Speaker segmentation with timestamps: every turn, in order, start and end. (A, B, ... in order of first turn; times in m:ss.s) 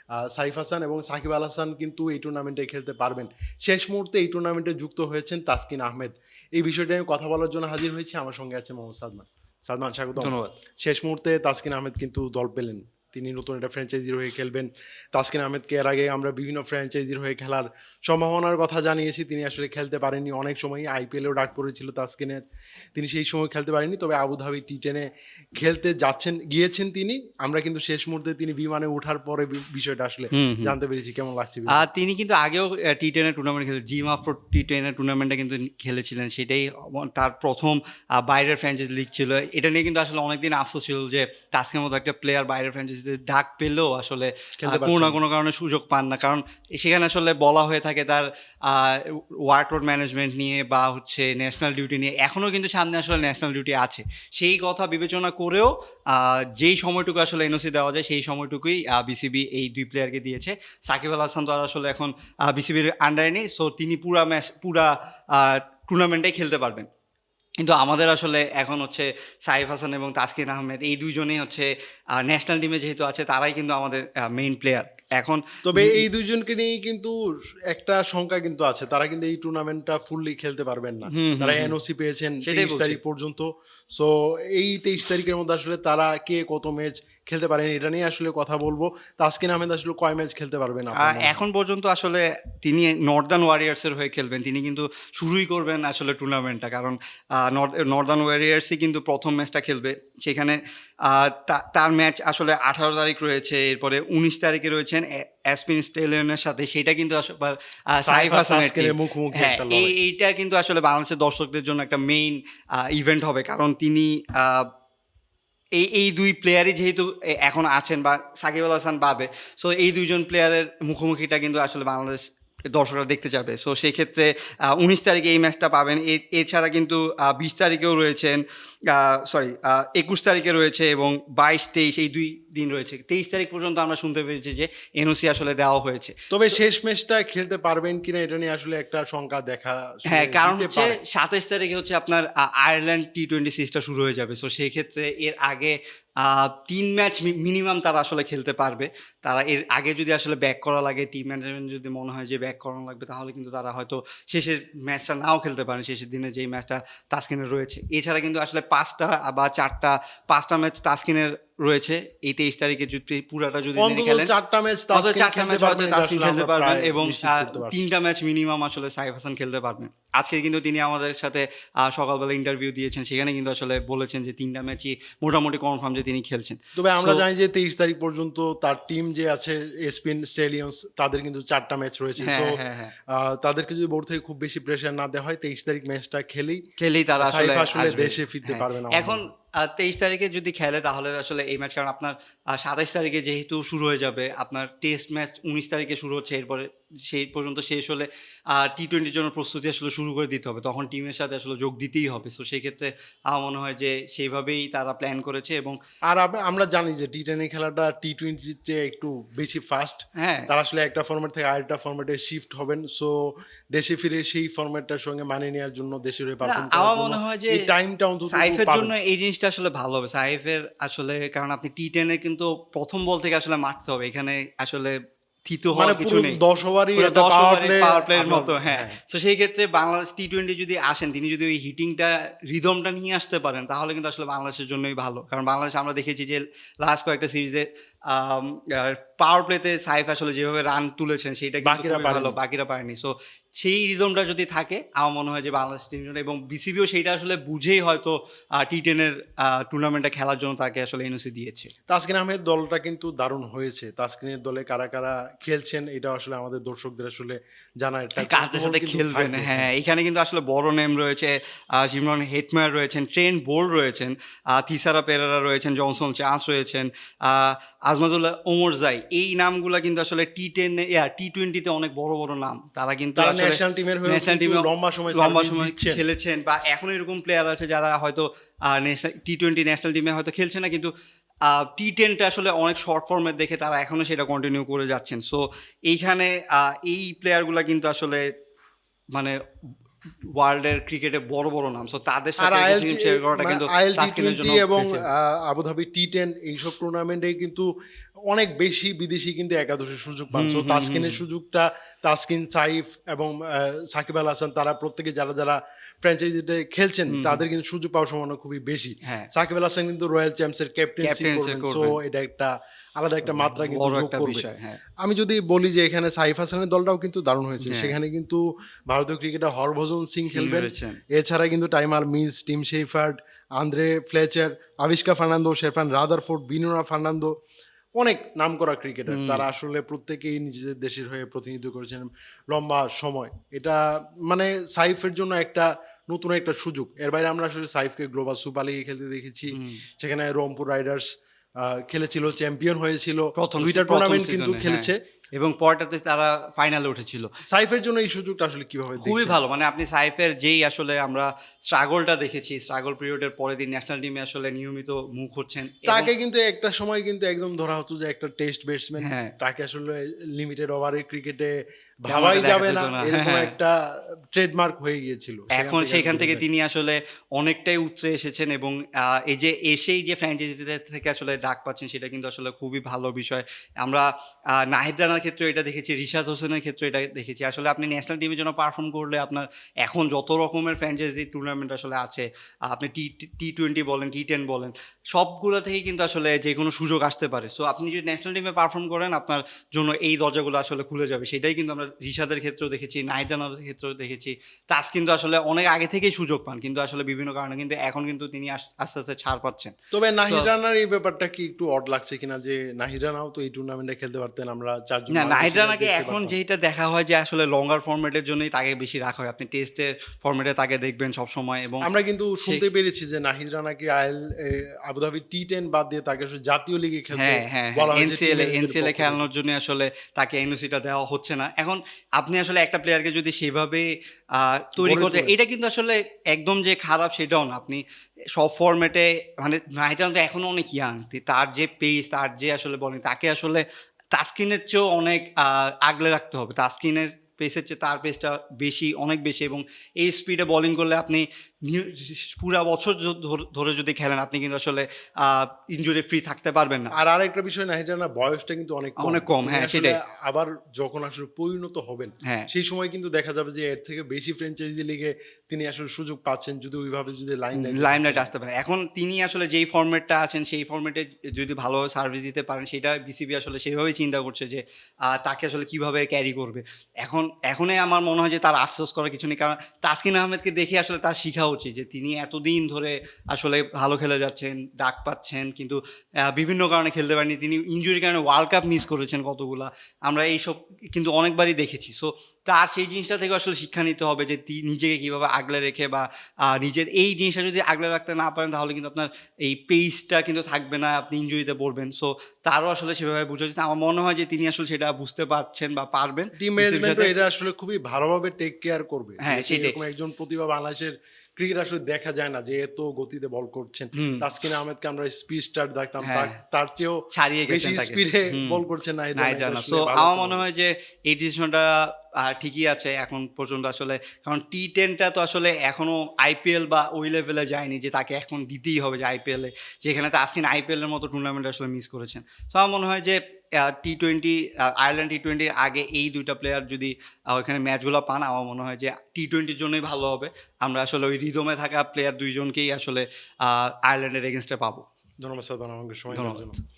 0:00.2-0:22.4 A
0:10.2-0:10.5 B
0:23.0-0:25.1 A
0:25.6-0:31.9 A
0:30.3-0:30.8 B
0:31.7-1:06.9 B
0:44.6-0:45.2 A
1:07.6-1:16.0 B
1:15.6-1:17.1 A
1:17.7-1:31.4 A
1:21.1-1:21.8 B
1:22.4-1:23.0 B
1:31.0-1:54.7 B
1:48.0-1:50.0 A
1:55.8-2:16.6 B
2:16.3-2:21.0 A
2:20.1-2:44.3 B
2:43.8-2:47.9 A
2:44.9-2:57.2 B
2:56.8-3:02.6 A
3:02.2-3:02.9 B
3:03.1-3:06.6 A
3:06.8-3:25.8 B
3:07.2-3:09.2 A
3:26.1-3:33.2 A
3:30.2-3:30.5 B
3:33.7-3:38.9 A
3:36.4-3:37.7 B
3:38.3-3:46.4 B
3:45.8-3:49.0 A
3:47.0-4:11.7 B
4:01.6-4:02.4 A
4:11.9-4:19.7 A
4:18.2-4:40.9 B
4:33.2-4:36.0 A
4:41.5-4:48.2 B
4:50.4-4:55.1 B
4:52.4-4:57.7 A
4:58.3-5:14.5 A
5:00.3-5:01.2 B
5:07.1-5:07.4 B
5:11.0-5:12.0 B
5:13.2-5:14.8 B
5:15.0-5:27.3 A
5:17.6-5:18.0 B
5:20.3-5:21.0 B
5:28.0-5:45.0 A
5:29.1-5:29.5 B
5:39.5-5:39.8 B
5:43.4-5:47.3 B
5:47.5-5:49.4 A
5:49.0-5:56.1 B
5:55.9-6:03.8 A
5:59.0-5:59.3 B
6:02.1-6:03.5 B
6:04.3-6:06.4 A
6:05.6-6:39.7 B
6:39.9-6:46.4 A
6:45.1-6:51.9 B
6:51.8-6:59.2 A
6:57.1-7:03.8 B
7:04.4-7:07.8 B
7:04.8-7:05.4 A
7:08.4-7:13.6 B
7:14.1-7:26.9 B
7:27.0-7:38.3 A
7:29.0-7:30.0 B
7:37.6-8:17.1 B
8:16.4-8:30.5 A
8:19.2-8:19.8 B
8:24.0-8:24.3 B
8:26.0-8:26.4 B
8:27.1-8:28.6 B
8:29.2-8:54.8 B
8:55.2-8:56.6 A
8:56.1-8:56.5 B